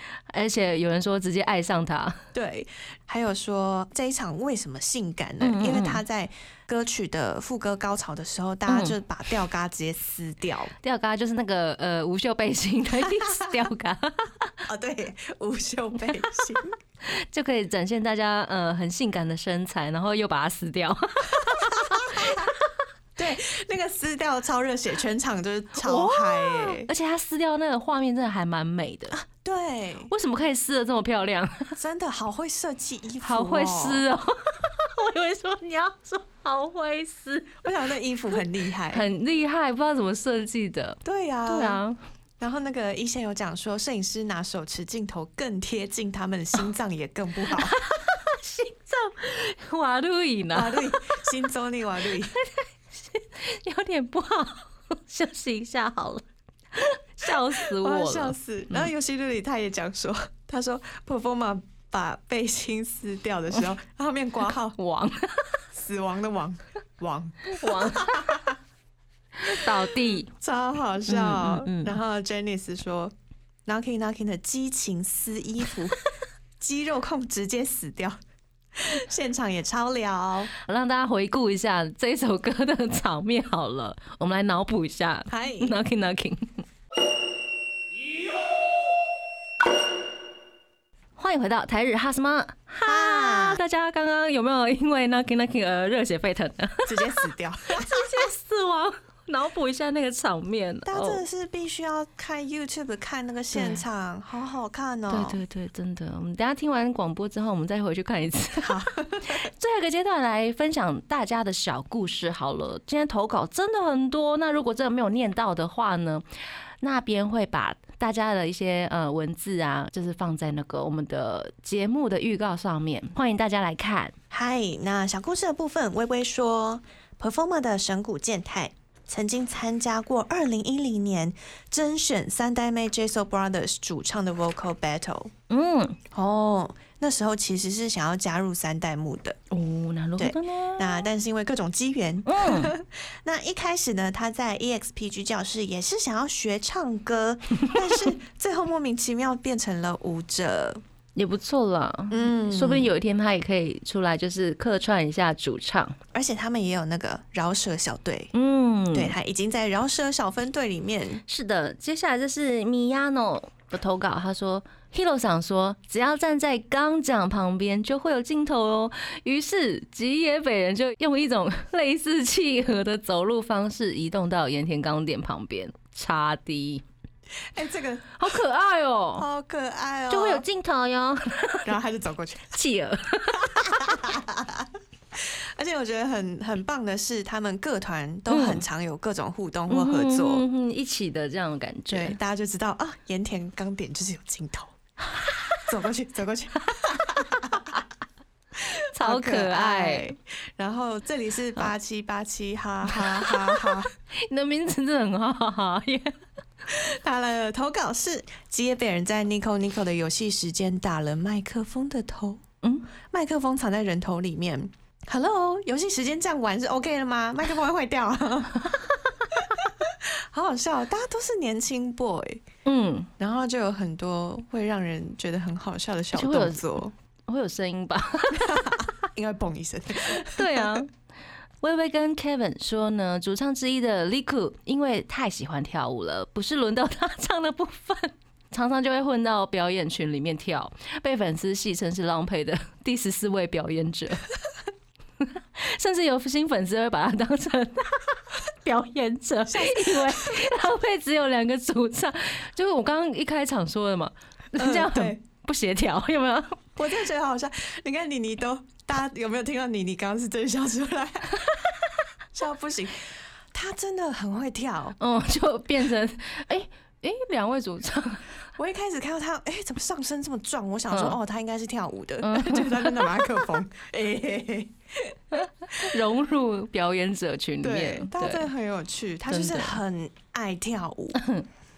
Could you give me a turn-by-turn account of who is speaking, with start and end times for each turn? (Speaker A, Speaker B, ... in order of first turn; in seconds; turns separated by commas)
Speaker A: 0.3-2.2, Speaker B: 2.3-10.7, Speaker A: 5.4-6.0, Speaker A: 8.7-9.0, Speaker A: 10.8-14.5, Speaker B: 13.0-13.6, Speaker B: 14.7-16.8, Speaker A: 17.0-22.7, Speaker B: 21.5-22.5, Speaker B: 23.2-26.9, Speaker A: 25.8-29.2, Speaker B: 29.1-30.1, Speaker A: 30.1-31.8, Speaker B: 31.8-34.0, Speaker A: 33.2-37.6, Speaker B: 37.6-39.0, Speaker A: 38.9-42.0, Speaker B: 41.0-41.8, Speaker B: 42.4-47.8, Speaker A: 47.5-50.9, Speaker B: 50.5-52.3, Speaker A: 52.4-58.9, Speaker B: 57.6-64.8, Speaker A: 64.8-65.6, Speaker B: 65.7-68.5, Speaker A: 67.5-68.4, Speaker A: 69.4-70.3, Speaker B: 69.5-73.1, Speaker A: 71.1-72.0, Speaker B: 73.7-76.0, Speaker B: 76.6-78.2, Speaker B: 78.7-80.5, Speaker A: 80.6-86.7, Speaker B: 85.3-85.8, Speaker A: 91.2-101.2, Speaker B: 92.8-93.6, Speaker B: 96.8-98.1, Speaker B: 100.9-105.4, Speaker A: 103.5-103.8, Speaker A: 105.1-116.2, Speaker B: 108.6-109.5, Speaker A: 116.8-124.2, Speaker B: 124.3-135.3, Speaker A: 135.5-136.0, Speaker B: 136.1-139.4, Speaker A: 139.5-141.1, Speaker B: 140.2-150.8, Speaker A: 142.3-142.7, Speaker A: 151.2-156.0, Speaker B: 152.1-152.9, Speaker B: 156.1-158.3, Speaker A: 158.3-159.1, Speaker B: 158.9-161.2, Speaker A: 161.3-176.8, Speaker B: 177.5-178.2, Speaker A: 178.2-179.3, Speaker B: 179.2-180.4, Speaker A: 180.1-181.7, Speaker B: 181.6-182.6, Speaker A: 182.5-184.1, Speaker B: 183.3-190.4, Speaker A: 188.3-188.6, Speaker A: 189.7-192.2, Speaker B: 191.9-194.7, Speaker B: 195.7-197.8, Speaker B: 198.6-203.9, Speaker A: 198.9-200.1, Speaker A: 203.0-206.2, Speaker B: 206.7-212.4, Speaker A: 212.6-212.9, Speaker B: 213.1-222.5, Speaker A: 222.7-223.1, Speaker B: 223.2-226.9, Speaker A: 226.2-226.8, Speaker A: 227.3-228.9, Speaker B: 228.3-230.8, Speaker A: 230.0-230.9, Speaker A: 231.6-244.3, Speaker A: 245.6-256.7, Speaker B: 249.5-250.4, Speaker B: 254.6-255.2, Speaker B: 256.8-261.6, Speaker B: 262.3-265.0, Speaker A: 265.0-268.3, Speaker B: 268.6-275.2, Speaker A: 270.9-271.2, Speaker A: 272.2-273.3, Speaker A: 275.3-278.5, Speaker B: 277.6-281.2, Speaker A: 279.3-279.8, Speaker A: 281.1-281.5